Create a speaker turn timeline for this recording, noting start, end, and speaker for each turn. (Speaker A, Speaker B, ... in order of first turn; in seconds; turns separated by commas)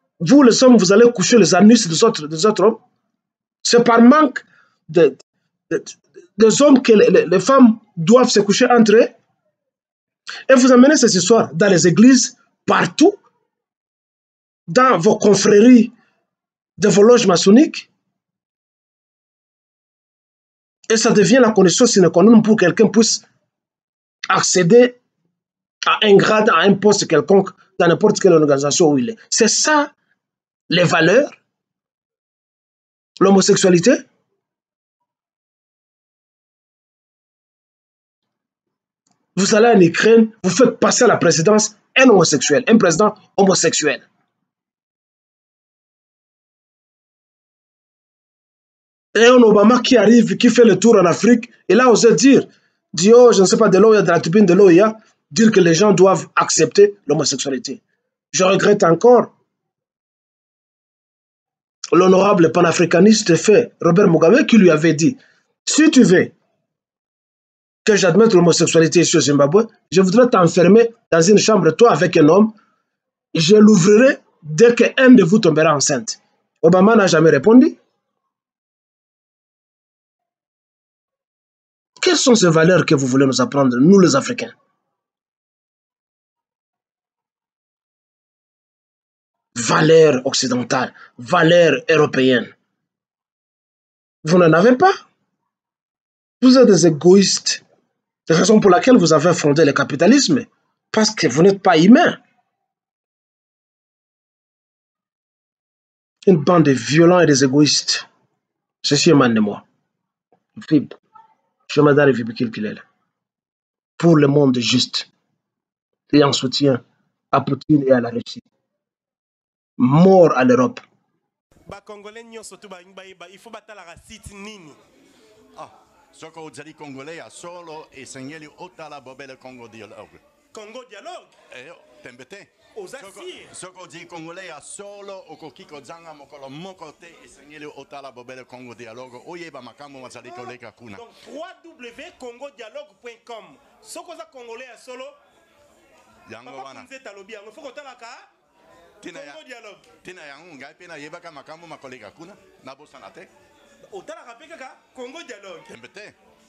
Speaker A: 0.2-2.8, Speaker A: 3.6-9.1, Speaker A: 10.5-13.2, Speaker A: 14.7-15.9, Speaker A: 16.8-17.9, Speaker A: 20.9-23.2, Speaker A: 24.3-25.0, Speaker A: 25.9-29.9, Speaker A: 30.7-31.4, Speaker A: 33.2-34.0, Speaker A: 39.3-44.1, Speaker A: 49.1-57.8, Speaker A: 58.3-59.3, Speaker A: 61.9-66.3, Speaker A: 67.8-72.5, Speaker A: 73.3-77.8, Speaker A: 82.0-84.5, Speaker A: 89.5-92.5, Speaker A: 94.2-95.0, Speaker A: 96.4-97.6, Speaker A: 98.3-102.2, Speaker A: 106.3-108.0, Speaker A: 108.8-109.6, Speaker A: 110.5-111.0, Speaker A: 111.7-112.8, Speaker A: 114.0-115.1, Speaker A: 116.1-118.4, Speaker A: 119.8-120.8, Speaker B: 121.7-124.8, Speaker C: 125.5-130.2, Speaker B: 130.5-131.3, Speaker C: 131.5-141.0, Speaker B: 132.7-133.5, Speaker B: 140.2-145.2, Speaker C: 146.3-146.9, Speaker B: 146.4-148.3, Speaker C: 149.0-149.4, Speaker B: 149.0-149.9, Speaker C: 150.0-153.3, Speaker B: 153.9-155.7, Speaker C: 155.7-156.1